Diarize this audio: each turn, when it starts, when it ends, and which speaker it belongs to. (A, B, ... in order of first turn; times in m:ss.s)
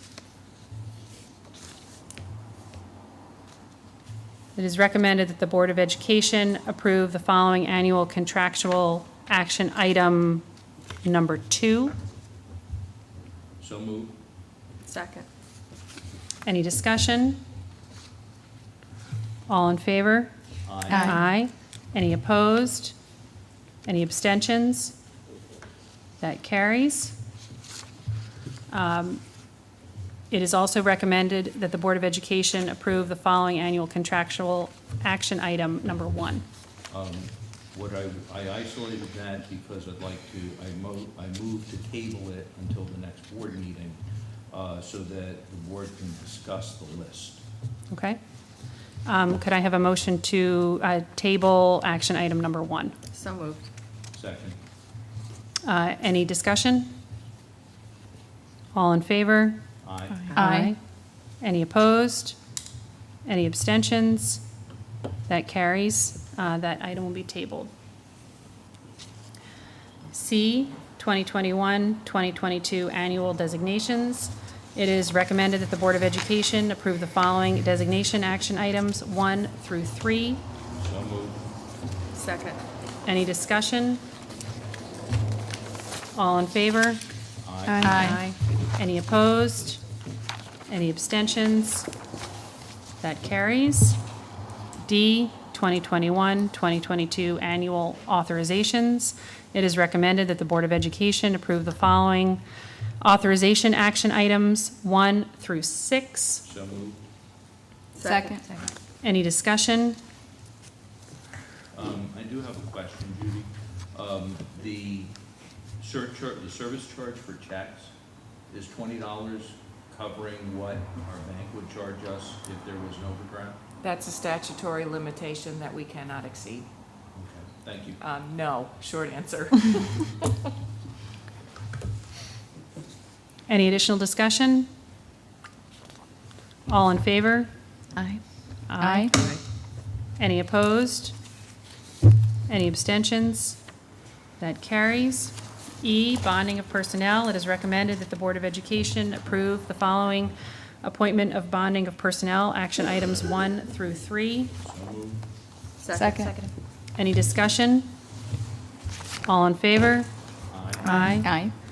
0:04.6-0:10.4 A
0:11.0-0:12.0 A
0:13.6-0:14.2 B
0:14.9-0:15.3 C
0:16.4-0:17.4 A
0:19.5-0:20.3 A
0:20.6-0:21.2 B
0:20.9-0:23.0 A
0:20.9-0:21.2 D
0:23.8-0:25.0 A
0:26.2-0:27.2 A
0:28.7-0:29.2 A
0:30.3-0:36.4 A
0:36.9-0:44.0 B
0:44.5-0:47.4 B
0:47.9-0:48.2 A
0:49.0-0:53.0 A
0:53.1-0:53.7 C
0:54.1-0:54.6 B
0:55.6-0:57.0 A
0:58.7-0:59.6 A
0:59.8-1:00.3 B
1:00.3-1:00.6 D
1:00.3-1:00.8 A
1:01.4-1:02.4 A
1:03.2-1:04.4 A
1:05.3-1:07.7 A
1:10.1-1:20.4 A
1:20.8-1:21.4 B
1:22.2-1:22.6 C
1:23.0-1:24.0 A
1:26.1-1:27.0 A
1:27.4-1:28.2 B
1:27.7-1:28.2 D
1:27.8-1:29.8 A
1:30.7-1:31.9 A
1:33.0-1:34.0 A
1:34.8-1:42.4 A
1:43.0-1:46.4 A
1:46.4-1:47.0 B
1:48.0-1:48.5 C
1:49.0-1:50.0 A
1:51.7-1:55.1 B
1:55.8-1:57.9 B
1:58.5-2:03.6 B
2:03.8-2:06.7 E
2:07.2-2:08.0 B
2:08.0-2:10.1 E
2:13.5-2:14.7 A
2:16.7-2:17.5 A
2:18.0-2:18.2 D
2:18.7-2:19.1 A
2:18.8-2:19.1 D
2:20.2-2:21.1 A
2:22.5-2:23.6 A
2:24.4-2:34.5 A
2:34.6-2:35.2 B
2:35.8-2:36.5 C
2:36.0-2:36.3 D
2:37.0-2:37.9 A
2:39.2-2:40.1 A
2:40.5-2:41.1 B
2:40.8-2:41.3 A
2:40.8-2:41.5 D